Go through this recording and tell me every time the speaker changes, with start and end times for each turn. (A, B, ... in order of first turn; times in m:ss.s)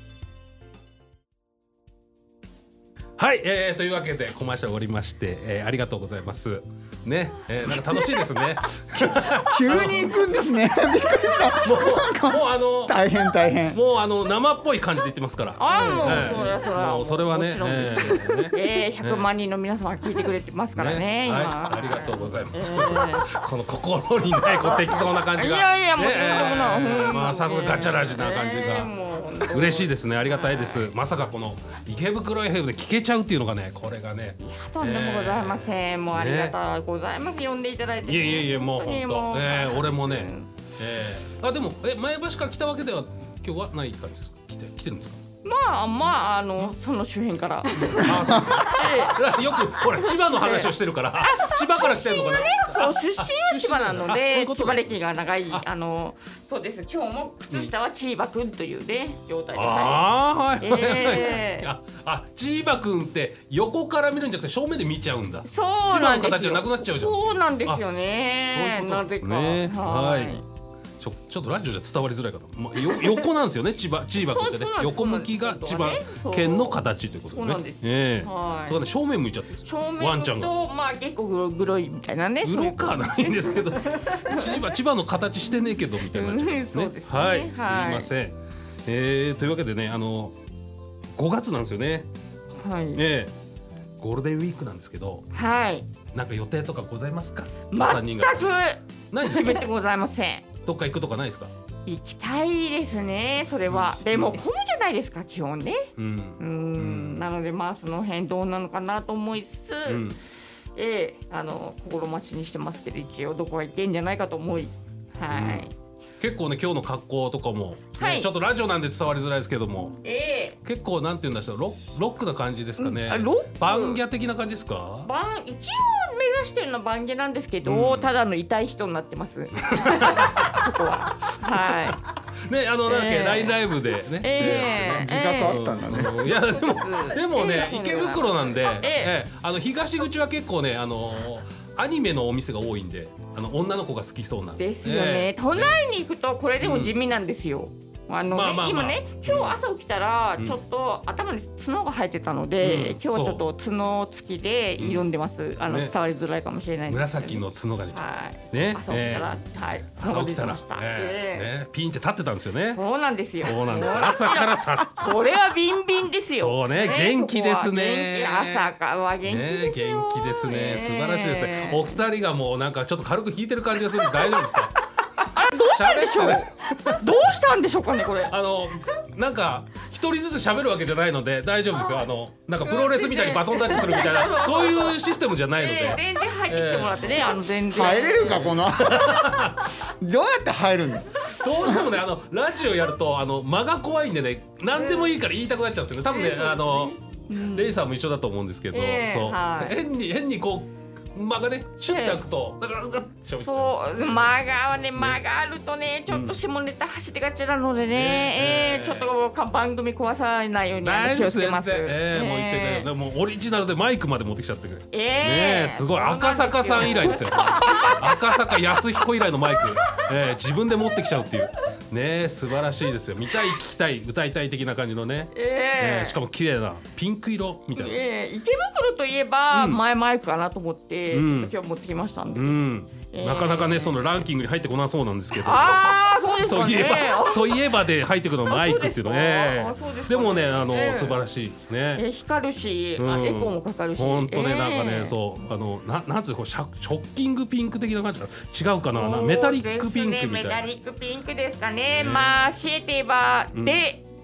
0:03.2-0:10.2 A
0:09.4-0:13.8 B
0:11.6-0:13.0 A
0:13.7-0:19.3 A
0:15.6-0:23.3 C
0:20.8-0:28.9 A
0:24.6-0:30.9 C
0:29.5-0:36.6 A
0:34.4-0:40.5 C
0:38.0-0:45.2 A
0:45.4-0:49.2 C
0:47.7-0:55.0 A
0:50.0-1:00.1 C
0:59.5-1:07.8 A
1:00.6-1:01.7 C
1:05.5-1:10.4 C
1:08.4-1:10.4 A
1:11.0-1:20.5 A
1:12.8-1:13.2 C
1:14.1-1:18.8 C
1:19.6-1:24.5 C
1:22.4-1:30.4 A
1:26.0-1:28.1 C
1:31.2-1:32.1 A
1:32.6-1:33.0 C
1:33.0-1:33.3 A
1:34.0-1:35.3 A
1:35.3-1:35.9 C
1:36.1-1:39.7 A
1:37.7-1:40.5 C
1:40.6-1:41.5 A
1:41.9-1:50.0 C
1:43.7-1:44.4 A
1:46.0-1:47.2 A
1:49.9-1:50.2 A
1:50.8-1:55.7 C
1:55.3-1:55.7 A
1:56.2-2:00.0 A
1:58.0-1:58.3 C
2:00.0-2:00.6 C
2:00.6-2:05.1 A
2:02.8-2:04.0 C
2:05.0-2:12.0 C
2:07.6-2:08.1 A
2:09.7-2:10.6 A
2:11.5-2:12.0 A
2:12.5-2:25.8 A
2:12.9-2:13.6 C
2:14.2-2:15.6 C
2:14.5-2:16.3 B
2:16.3-2:19.1 C
2:24.6-2:41.5 C
2:26.6-2:26.9 A
2:28.3-2:29.6 A
2:32.6-2:33.4 A
2:34.8-2:35.1 A
2:35.6-2:35.9 A
2:36.9-2:39.3 A
2:39.9-2:42.8 A
2:42.7-2:52.0 C
2:43.4-2:45.1 A
2:46.3-2:54.8 A
2:55.3-2:58.3 C
2:55.6-2:57.1 A
2:58.3-3:07.4 A
3:02.6-3:05.0 C
3:05.6-3:08.6 C
3:07.7-3:11.1 B
3:08.2-3:09.7 A
3:11.3-3:24.4 A
3:14.8-3:15.1 C
3:16.1-3:17.6 C
3:18.7-3:19.8 C
3:21.9-3:22.2 C
3:23.4-3:32.9 C
3:26.1-3:26.4 A
3:27.9-3:29.1 A
3:30.8-3:48.0 A
3:34.9-3:38.1 C
3:45.3-3:46.2 C
3:47.8-3:54.0 C
3:49.5-3:49.8 A
3:51.1-3:51.5 A
3:52.3-4:02.0 A
3:55.4-3:57.7 C
3:58.5-4:01.2 C
4:02.0-4:05.2 C
4:03.0-4:10.6 A
4:08.9-4:14.0 C
4:11.9-4:12.4 A